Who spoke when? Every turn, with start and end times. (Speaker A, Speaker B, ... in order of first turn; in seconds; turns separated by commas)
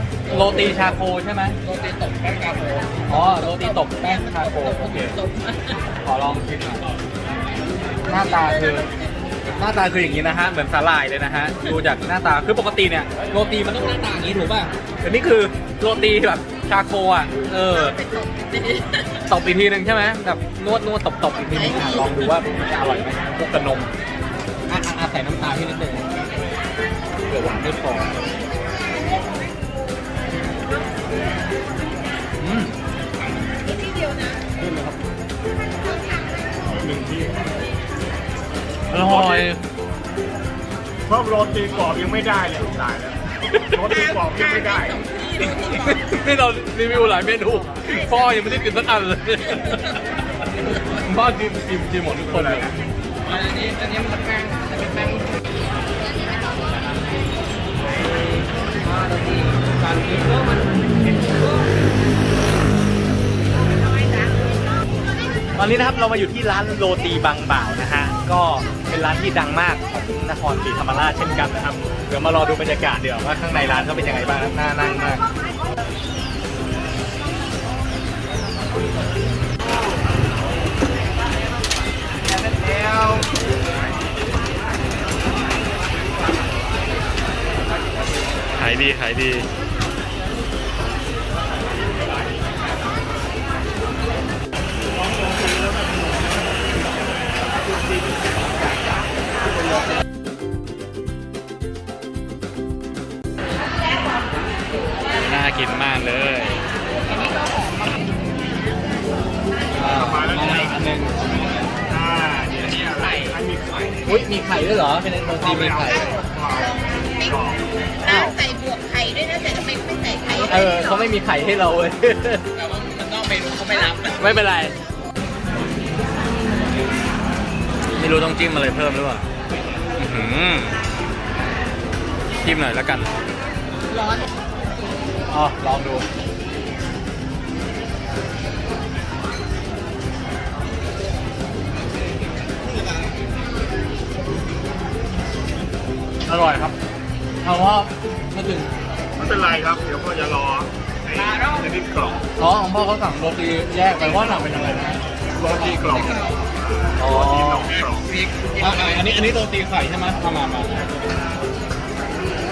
Speaker A: 0.3-1.6, Speaker B: 1.6-3.1, Speaker A: 3.1-5.2, Speaker C: 3.3-5.8, Speaker A: 6.0-6.8, Speaker A: 8.1-8.9, Speaker C: 8.2-8.9, Speaker A: 9.5-18.0, Speaker C: 17.6-19.3, Speaker A: 19.3-23.9, Speaker C: 21.4-22.3, Speaker A: 24.7-26.1, Speaker A: 27.3-28.2, Speaker A: 32.4-32.7, Speaker C: 33.6-34.4, Speaker A: 34.6-34.9, Speaker D: 36.7-37.4, Speaker A: 38.9-39.6, Speaker D: 38.9-39.5, Speaker D: 41.1-45.0, Speaker C: 43.9-46.0, Speaker B: 45.5-45.8, Speaker A: 45.6-50.0, Speaker C: 47.9-48.4, Speaker A: 50.7-52.8, Speaker D: 52.3-52.7, Speaker B: 53.2-55.3, Speaker B: 57.9-61.4, Speaker A: 65.5-75.2, Speaker A: 88.6-89.5, Speaker A: 105.2-106.6, Speaker C: 107.1-107.8, Speaker A: 109.7-111.3, Speaker D: 109.8-110.8, Speaker D: 111.9-114.2, Speaker B: 112.8-113.3, Speaker A: 114.0-116.1, Speaker D: 115.2-117.6, Speaker C: 116.0-117.4, Speaker C: 118.0-121.1, Speaker A: 118.0-118.3, Speaker A: 120.4-122.5, Speaker B: 122.5-124.2, Speaker C: 123.7-124.5, Speaker A: 124.1-124.8, Speaker A: 128.0-129.2, Speaker A: 130.0-130.8, Speaker A: 132.4-133.1, Speaker A: 135.3-136.0, Speaker A: 146.3-146.7, Speaker A: 147.4-148.7, Speaker D: 149.2-152.2, Speaker B: 151.3-151.6, Speaker A: 152.4-155.0, Speaker D: 155.3-156.3, Speaker B: 155.4-156.3, Speaker A: 157.0-157.8, Speaker D: 157.0-158.1, Speaker B: 158.0-159.0, Speaker A: 158.5-160.8